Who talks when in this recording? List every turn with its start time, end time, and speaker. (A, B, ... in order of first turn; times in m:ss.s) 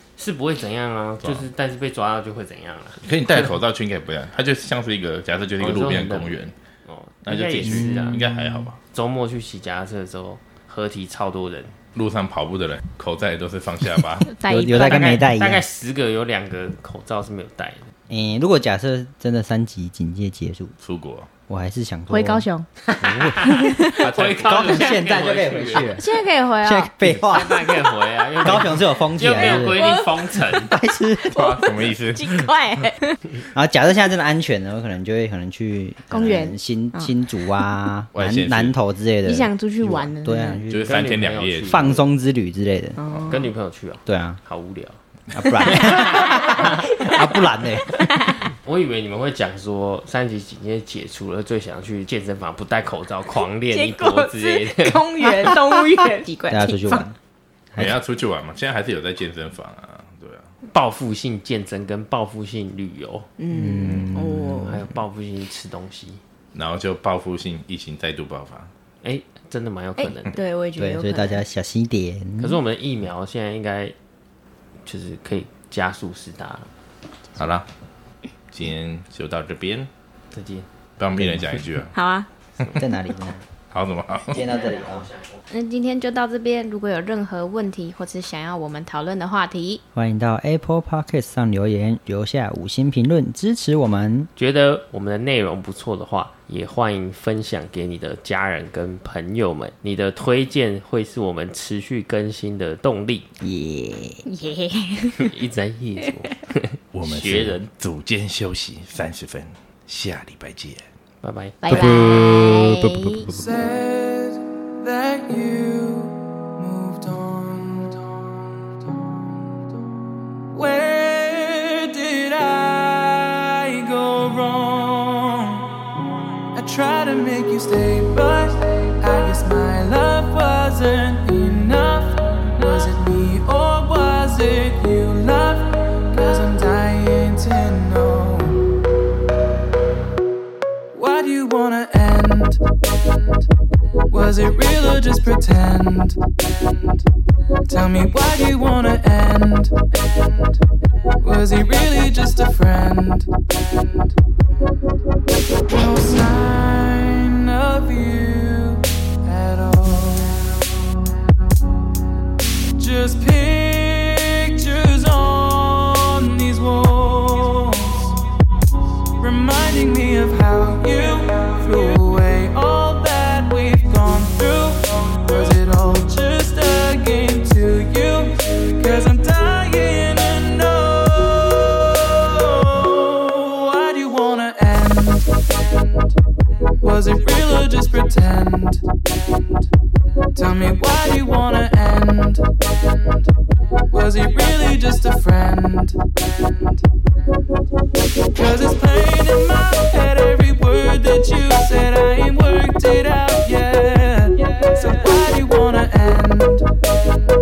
0:00.2-0:03.4 A
0:03.0-0:06.5 B
0:05.6-0:08.3 A
0:07.2-0:08.8 B
0:08.1-0:08.6 C
0:08.9-0:11.8 A
0:11.9-0:14.3 B
0:14.2-0:15.2 D
0:14.5-0:15.6 C
0:14.7-0:17.9 A
0:18.1-0:20.7 C
0:20.8-0:21.3 B
0:21.5-0:22.5 C
0:22.1-0:22.7 D
0:23.0-0:26.0 A
0:23.0-0:23.8 C
0:23.5-0:24.0 D
0:24.0-0:24.7 B
0:24.5-0:26.1 C
0:25.9-0:26.9 D
0:26.6-0:27.7 C
0:27.0-0:30.8 A
0:28.4-0:29.9 C
0:29.3-0:30.2 D
0:30.5-0:31.5 C
0:31.2-0:33.2 D
0:31.3-0:32.5 B
0:33.4-0:41.0 C
0:36.1-0:37.7 D
0:38.1-0:38.8 B
0:39.2-0:40.6 D
0:40.7-0:41.8 B
0:40.9-0:42.1 A
0:41.6-0:43.0 C
0:43.0-0:43.5 D
0:43.3-0:45.0 A
0:44.0-0:44.4 C
0:45.3-0:48.1 C
0:45.4-0:48.5 D
0:48.6-0:55.6 A
0:53.6-0:57.1 D
0:56.5-0:57.1 C
0:57.8-1:00.5 B
1:00.7-1:03.3 A
1:03.4-1:04.8 D
1:03.5-1:04.9 C
1:04.6-1:06.2 A
1:06.5-1:08.7 B
1:09.0-1:10.4 A
1:10.0-1:11.4 D
1:10.8-1:12.6 C
1:12.4-1:13.9 A
1:14.8-1:16.7 A
1:17.4-1:17.7 B
1:18.5-1:19.9 B
1:20.3-1:20.7 A
1:21.0-1:21.9 B
1:21.9-1:22.3 D
1:22.6-1:22.9 A
1:22.7-1:23.4 C
1:23.7-1:24.5 B
1:24.2-1:25.1 C
1:25.5-1:29.8 D
1:29.9-1:34.3 C
1:34.4-1:43.3 A
1:43.4-1:44.2 C
1:44.2-1:45.3 D
1:45.2-1:47.7 A
1:46.9-1:50.8 B
1:51.2-1:51.6 A
1:51.6-1:53.3 D
1:51.7-1:53.5 C
1:53.3-1:59.4 E
2:00.5-2:05.7 E
2:06.5-2:18.8 E
2:20.9-2:22.6 E
2:24.1-2:26.2 E
2:27.7-2:30.6 E
2:31.2-2:34.1 E
2:35.7-2:41.0 E
2:42.8-2:48.2 E
2:49.2-3:05.3 E
3:06.8-3:08.8 E
3:10.3-3:12.4 E
3:13.9-3:16.8 E
3:18.4-3:26.7 E